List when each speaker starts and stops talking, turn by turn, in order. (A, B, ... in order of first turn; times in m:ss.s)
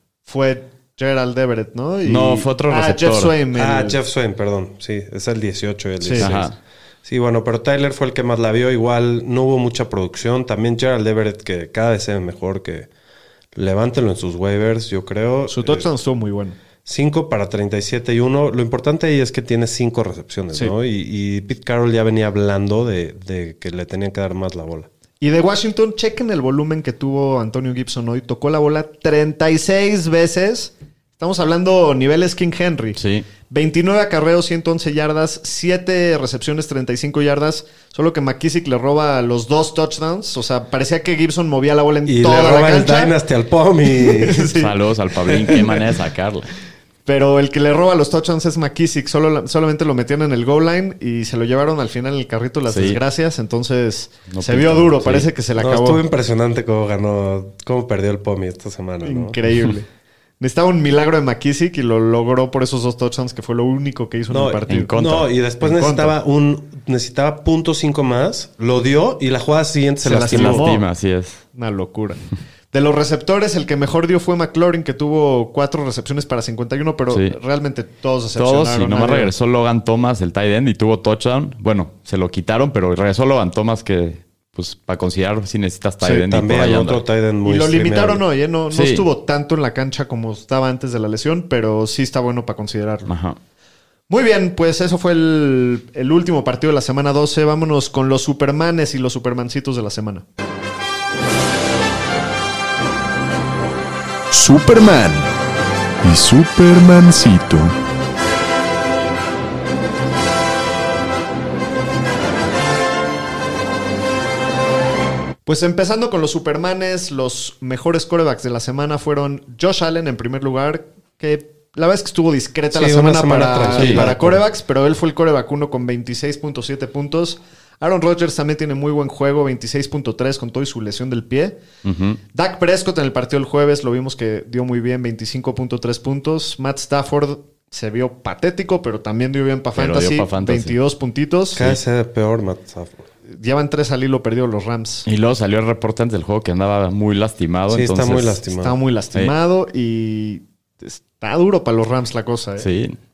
0:00.2-0:04.0 A
0:02.0-0:03.3 B
0:03.5-0:06.5 C
0:06.0-0:06.3 A
0:06.2-0:06.6 B
0:07.0-0:12.9 C
0:13.5-0:15.9 C
0:15.5-0:16.6 A
0:16.8-0:24.9 C
0:25.2-0:43.1 A
0:33.0-0:33.2 B
0:42.0-0:44.5 C
0:43.9-0:44.7 A
0:44.5-0:46.5 B
0:47.1-0:56.0 A
0:52.7-0:53.0 B
0:54.3-0:55.3 B
0:55.6-0:59.4 C
0:59.0-0:59.9 A
1:00.4-1:04.9 A
1:04.3-1:10.7 C
1:04.7-1:05.3 B
1:05.6-1:06.1 A
1:10.0-1:10.8 A
1:10.2-1:11.4 B
1:11.5-1:12.2 A
1:12.7-1:19.3 A
1:17.1-1:17.4 B
1:18.4-1:27.0 B
1:26.3-1:28.2 C
1:27.4-1:33.1 A
1:28.7-1:29.1 B
1:33.1-1:33.4 B
1:34.1-1:40.2 A
1:44.3-1:45.3 D
1:46.0-1:47.8 D
1:55.4-2:11.6 A
2:02.7-2:04.4 C
2:03.7-2:04.0 B
2:11.8-2:12.2 B
2:12.3-2:21.8 A
2:19.8-2:20.8 B
2:21.6-2:23.0 C
2:23.2-2:25.1 A
2:25.1-2:28.4 B
2:27.7-2:28.8 C
2:28.6-2:32.7 A
2:32.6-2:33.0 B